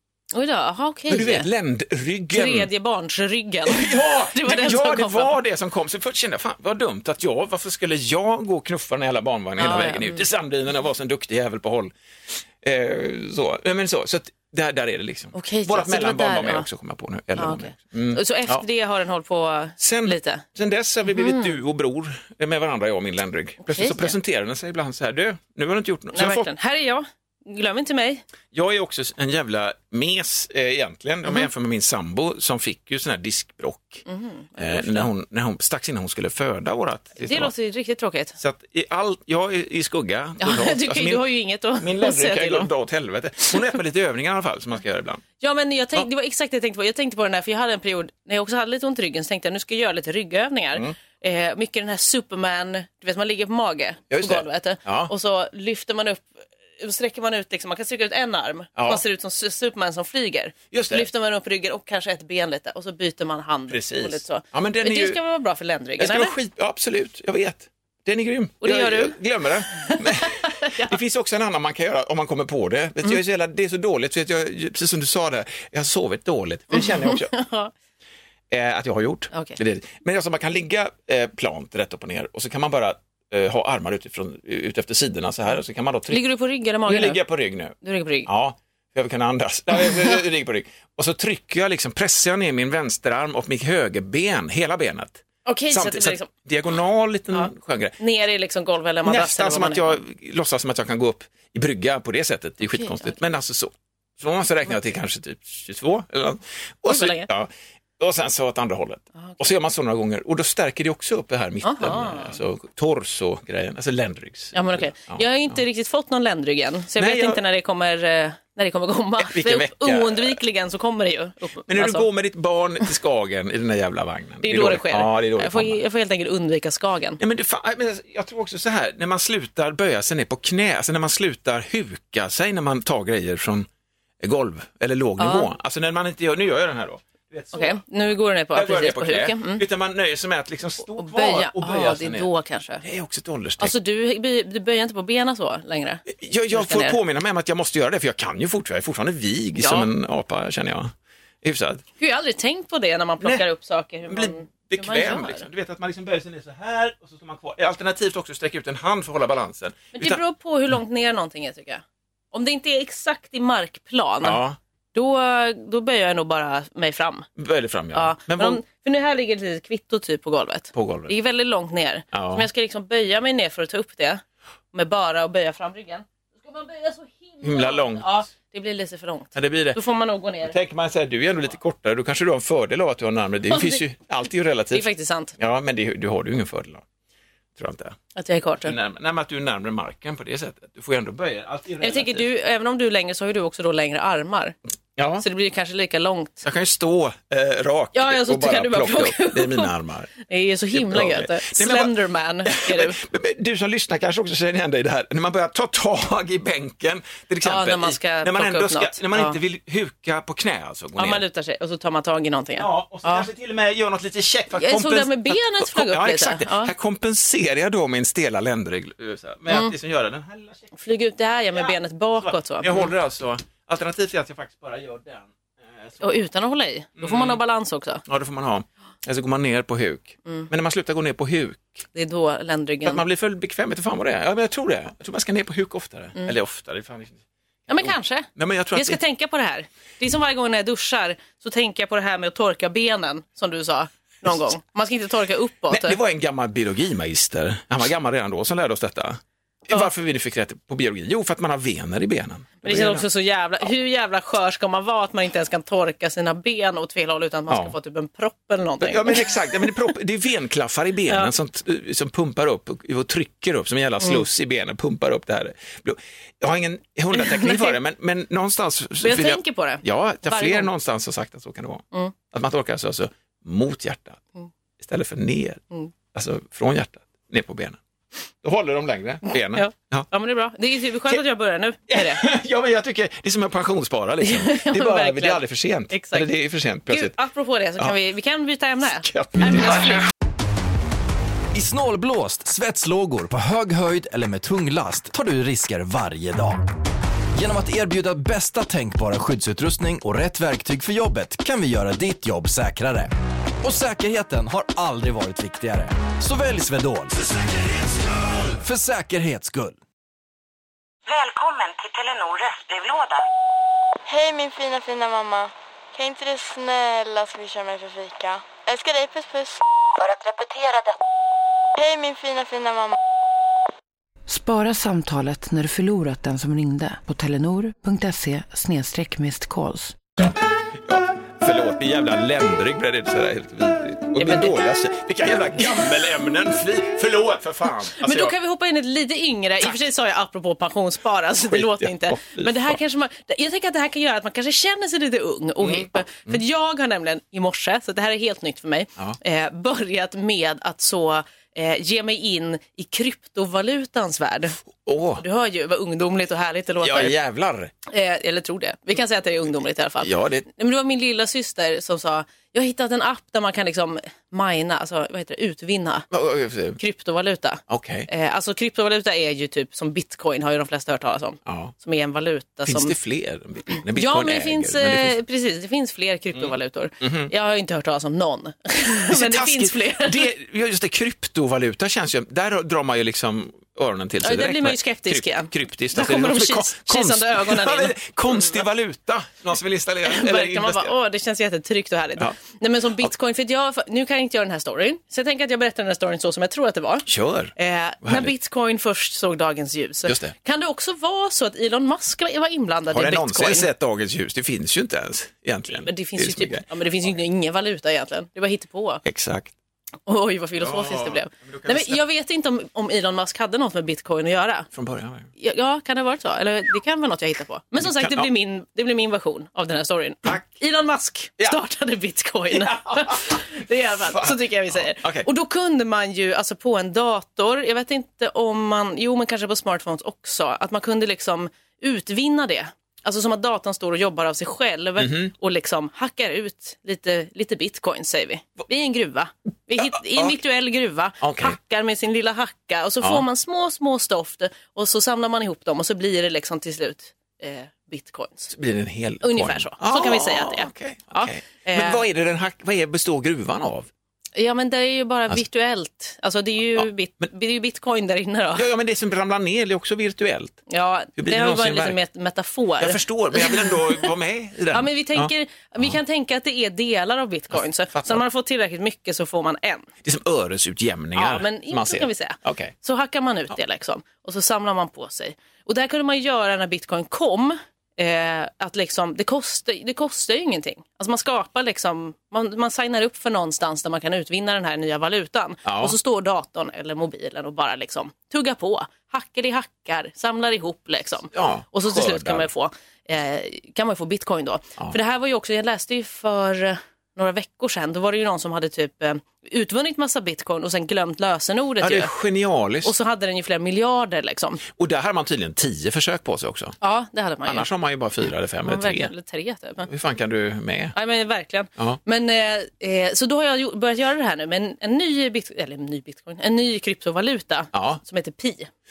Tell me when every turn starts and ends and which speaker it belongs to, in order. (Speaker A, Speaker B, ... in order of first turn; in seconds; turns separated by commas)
Speaker A: 0.3-1.5, Speaker B: 1.1-2.7, Speaker A: 2.3-5.3, Speaker B: 3.6-11.9, Speaker A: 9.6-10.2, Speaker B: 12.6-18.6, Speaker A: 15.3-16.6, Speaker A: 17.4-20.4, Speaker B: 19.8-26.5, Speaker A: 21.1-21.6, Speaker A: 23.7-24.1, Speaker A: 26.1-28.2, Speaker B: 28.5-34.0, Speaker A: 34.1-35.1, Speaker B: 34.6-37.5, Speaker A: 37.2-38.4, Speaker B: 38.4-41.2, Speaker A: 40.4-42.7, Speaker B: 41.8-45.2, Speaker A: 45.4-56.3, Speaker B: 54.1-55.1, Speaker A: 56.8-66.3, Speaker B: 58.8-59.0, Speaker B: 60.7-61.1, Speaker B: 63.7-65.2, Speaker B: 66.0-77.3, Speaker A: 68.6-71.0, Speaker A: 76.7-77.7, Speaker B: 78.5-86.2, Speaker A: 79.3-79.6, Speaker A: 86.1-87.2, Speaker B: 86.8-87.7, Speaker A: 87.8-88.3, Speaker B: 88.2-98.0, Speaker A: 95.5-96.3, Speaker A: 97.3-100.0, Speaker B: 99.0-115.6, Speaker A: 102.8-103.1, Speaker A: 106.9-107.3, Speaker A: 111.6-112.4, Speaker A: 114.5-122.1, Speaker B: 117.0-117.4, Speaker B: 119.2-120.4, Speaker B: 121.7-125.8, Speaker A: 124.4-127.2, Speaker B: 127.2-133.7, Speaker B: 134.2-137.8, Speaker A: 135.2-135.5, Speaker A: 137.5-139.6, Speaker B: 138.5-142.3, Speaker A: 140.9-142.8, Speaker B: 142.8-143.7, Speaker A: 143.6-147.0, Speaker B: 146.1-151.8, Speaker A: 149.6-149.9, Speaker A: 152.0-155.4, Speaker B: 154.1-160.2, Speaker A: 159.9-164.4, Speaker B: 164.2-164.6, Speaker A: 164.9-167.2, Speaker B: 167.4-168.6, Speaker A: 167.9-174.2, Speaker B: 170.7-171.1, Speaker B: 172.1-172.5, Speaker A: 174.7-180.6, Speaker B: 177.4-178.2, Speaker B: 179.3-179.8, Speaker B: 180.4-184.9, Speaker A: 183.5-183.8, Speaker A: 184.7-185.3, Speaker B: 185.4-186.8, Speaker B: 187.6-188.0, Speaker A: 188.2-188.7, Speaker B: 188.6-192.2, Speaker A: 191.8-194.6, Speaker B: 195.0-195.2, Speaker A: 195.2-196.4, Speaker B: 196.4-200.1, Speaker A: 197.9-199.7, Speaker A: 200.2-203.0, Speaker B: 200.7-211.2, Speaker A: 207.4-209.4, Speaker A: 210.9-213.3, Speaker B: 212.6-220.7, Speaker A: 214.5-216.7, Speaker A: 219.5-219.7, Speaker A: 220.8-222.9, Speaker B: 221.5-226.2, Speaker A: 226.0-228.0, Speaker B: 227.0-227.4, Speaker B: 228.1-231.9, Speaker A: 231.9-233.0, Speaker B: 232.8-239.0, Speaker A: 237.7-246.0, Speaker B: 245.7-253.1, Speaker A: 252.6-259.7, Speaker B: 257.5-257.7, Speaker B: 258.8-274.2, Speaker A: 267.1-267.8, Speaker A: 269.0-270.7, Speaker B: 274.8-275.6, Speaker B: 276.1-277.8, Speaker B: 278.4-280.1, Speaker A: 279.3-282.2, Speaker B: 281.9-287.1, Speaker A: 284.2-286.3, Speaker A: 286.9-290.0, Speaker B: 289.0-290.0, Speaker C: 291.5-296.6, Speaker C: 297.3-303.1, Speaker C: 303.6-307.2, Speaker C: 308.5-309.8, Speaker D: 311.1-313.2, Speaker E: 314.1-319.6, Speaker D: 319.9-320.9, Speaker E: 321.8-322.9, Speaker F: 324.3-330.0, Speaker B: 330.2-338.3, Speaker A: 334.1-334.6, Speaker A: 338.0-354.6, Speaker B: 341.5-342.8, Speaker B: 345.6-346.4, Speaker B: 354.8-355.2, Speaker A: 355.2-357.1, Speaker B: 356.8-357.7, Speaker A: 357.9-366.1, Speaker B: 360.0-360.4, Speaker B: 366.1-366.8, Speaker A: 366.8-372.9, Speaker B: 367.7-368.1, Speaker B: 371.5-371.7, Speaker B: 372.6-375.2, Speaker A: 373.9-380.3, Speaker B: 376.4-377.3, Speaker B: 379.1-390.9, Speaker A: 384.2-388.6, Speaker A: 390.0-403.7, Speaker B: 397.1-397.5, Speaker B: 398.0-398.3, Speaker B: 400.1-400.3, Speaker B: 402.9-407.1, Speaker A: 405.7-409.0, Speaker B: 409.0-409.5, Speaker A: 410.1-414.7, Speaker B: 410.6-412.0, Speaker B: 414.7-415.3, Speaker A: 415.4-448.5, Speaker B: 417.8-418.3, Speaker B: 422.5-423.4, Speaker B: 424.0-425.3, Speaker B: 435.0-435.3, Speaker B: 439.8-440.4, Speaker B: 441.2-441.6, Speaker B: 448.5-453.9, Speaker A: 449.2-452.0, Speaker A: 454.3-458.7, Speaker B: 458.5-460.6, Speaker A: 460.7-464.1, Speaker B: 461.2-462.0, Speaker B: 462.8-466.0, Speaker A: 464.7-469.9, Speaker B: 467.5-468.2, Speaker B: 470.0-472.7, Speaker A: 471.1-502.1, Speaker B: 485.6-485.9, Speaker B: 491.3-492.5, Speaker B: 501.8-502.9, Speaker A: 502.8-504.6, Speaker B: 504.7-506.8, Speaker A: 506.8-507.7, Speaker B: 507.4-509.1, Speaker A: 508.6-509.9, Speaker B: 509.9-510.9, Speaker A: 510.9-518.7, Speaker B: 517.7-518.0